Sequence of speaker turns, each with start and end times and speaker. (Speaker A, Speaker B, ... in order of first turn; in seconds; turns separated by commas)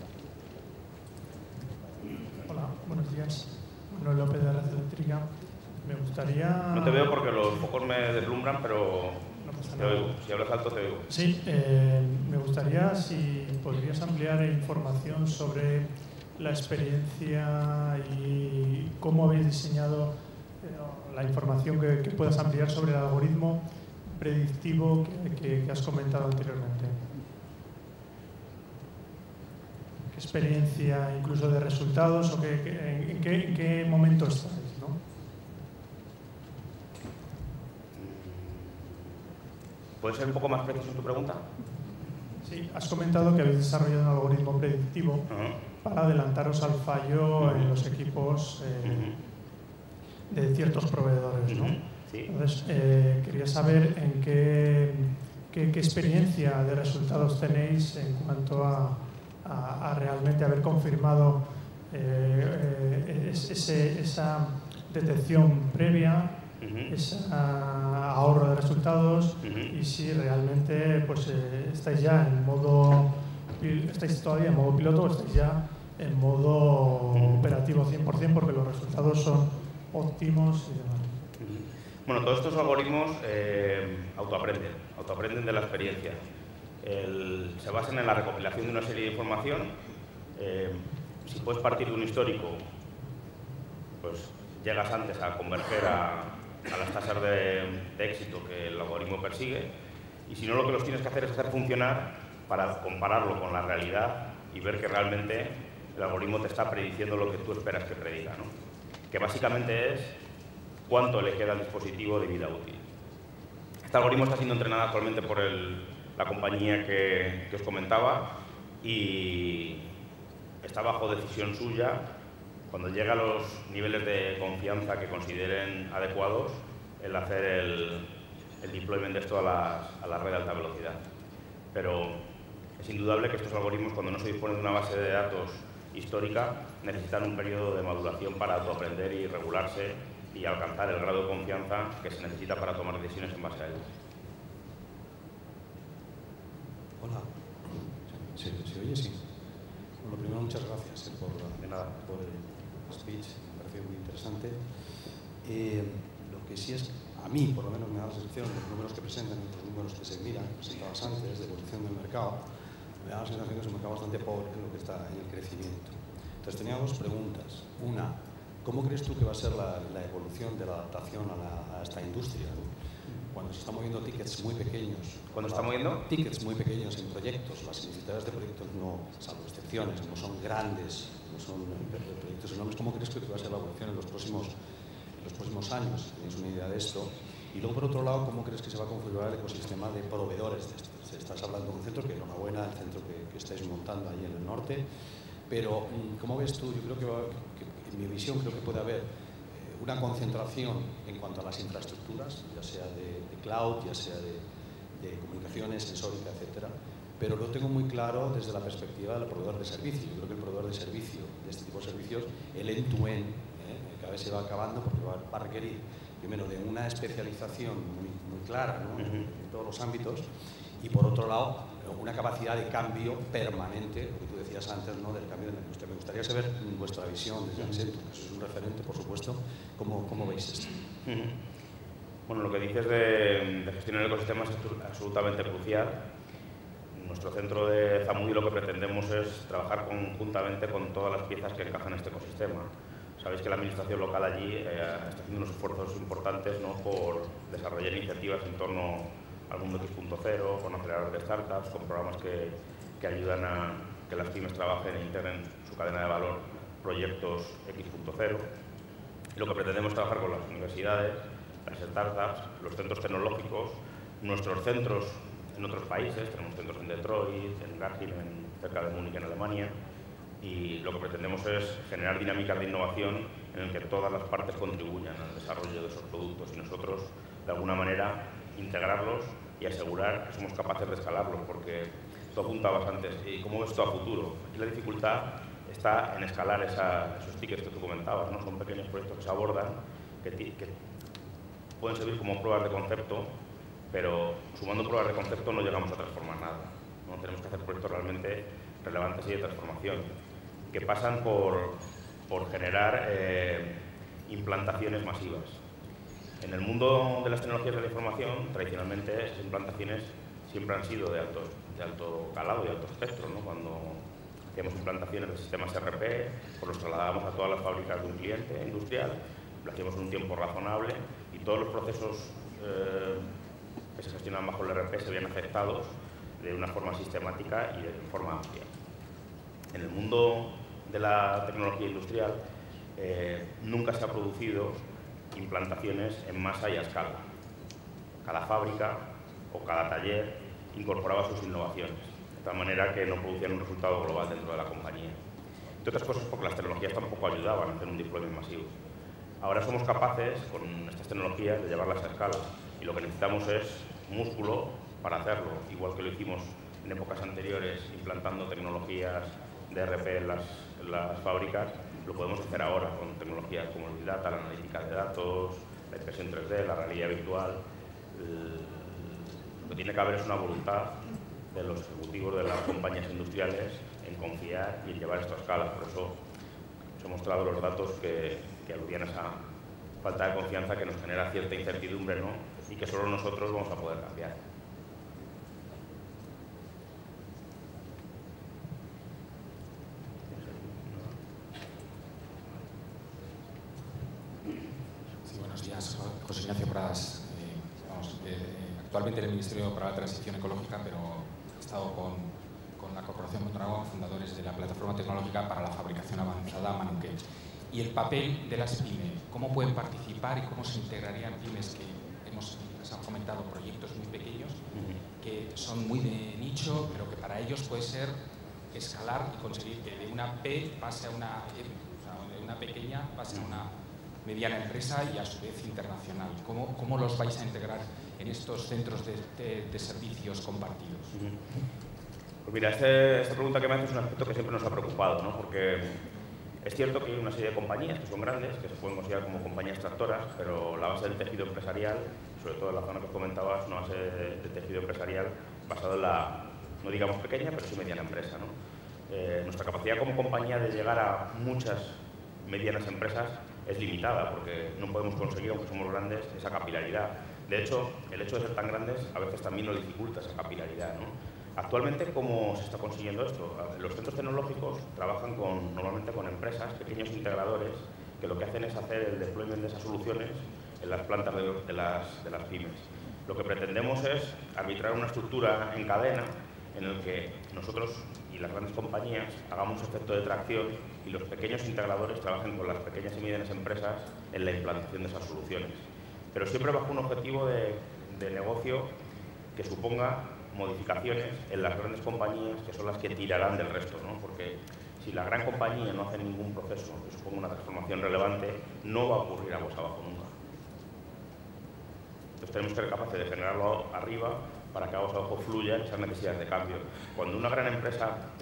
Speaker A: 2.5-7.6, Speaker B: 6.7-11.1, Speaker A: 9.4-10.2, Speaker A: 11.1-27.1, Speaker A: 30.1-35.0, Speaker B: 38.0-39.0, Speaker B: 40.0-41.5, Speaker A: 42.4-49.2, Speaker B: 45.3-45.6, Speaker B: 47.4-47.7, Speaker B: 48.8-49.2, Speaker A: 50.3-66.4, Speaker B: 51.5-52.3, Speaker B: 66.6-66.9, Speaker A: 66.9-81.2, Speaker B: 69.4-69.7, Speaker B: 77.1-77.4, Speaker B: 81.4-86.2, Speaker B: 86.8-89.8, Speaker B: 90.3-92.6, Speaker B: 94.0-99.7, Speaker B: 100.3-108.5, Speaker B: 109.1-110.2, Speaker B: 110.9-112.8, Speaker B: 113.8-119.9, Speaker B: 120.6-122.1, Speaker B: 122.7-128.1, Speaker B: 128.6-131.0, Speaker B: 131.7-132.2, Speaker B: 132.8-143.9, Speaker C: 147.0-149.2, Speaker C: 150.0-154.7, Speaker B: 151.6-152.3, Speaker C: 155.4-162.4, Speaker C: 163.0-172.7, Speaker C: 173.3-184.5, Speaker B: 175.3-176.0, Speaker C: 185.2-194.8, Speaker C: 195.5-204.4, Speaker C: 205.0-220.2, Speaker B: 219.0-219.2, Speaker C: 220.8-230.8, Speaker B: 231.0-231.3, Speaker B: 232.3-236.0, Speaker B: 236.9-258.5, Speaker B: 259.4-269.7, Speaker B: 270.4-290.7, Speaker B: 291.8-293.3, Speaker B: 293.9-300.1, Speaker B: 300.7-305.6, Speaker B: 306.4-323.3, Speaker B: 323.9-328.7, Speaker B: 329.7-332.4, Speaker B: 332.9-334.8, Speaker B: 335.3-337.2, Speaker B: 338.2-345.2, Speaker B: 345.8-348.7, Speaker B: 349.4-367.6, Speaker B: 368.1-371.0, Speaker B: 371.5-376.1, Speaker B: 377.0-379.4, Speaker B: 380.0-384.4, Speaker B: 390.3-391.1, Speaker D: 395.2-407.1, Speaker D: 407.7-414.6, Speaker B: 414.7-415.0, Speaker D: 415.2-418.1, Speaker D: 418.7-423.7, Speaker D: 424.2-431.1, Speaker B: 432.4-436.0, Speaker B: 436.6-448.5, Speaker B: 449.1-488.9, Speaker B: 489.6-500.3, Speaker B: 502.4-508.2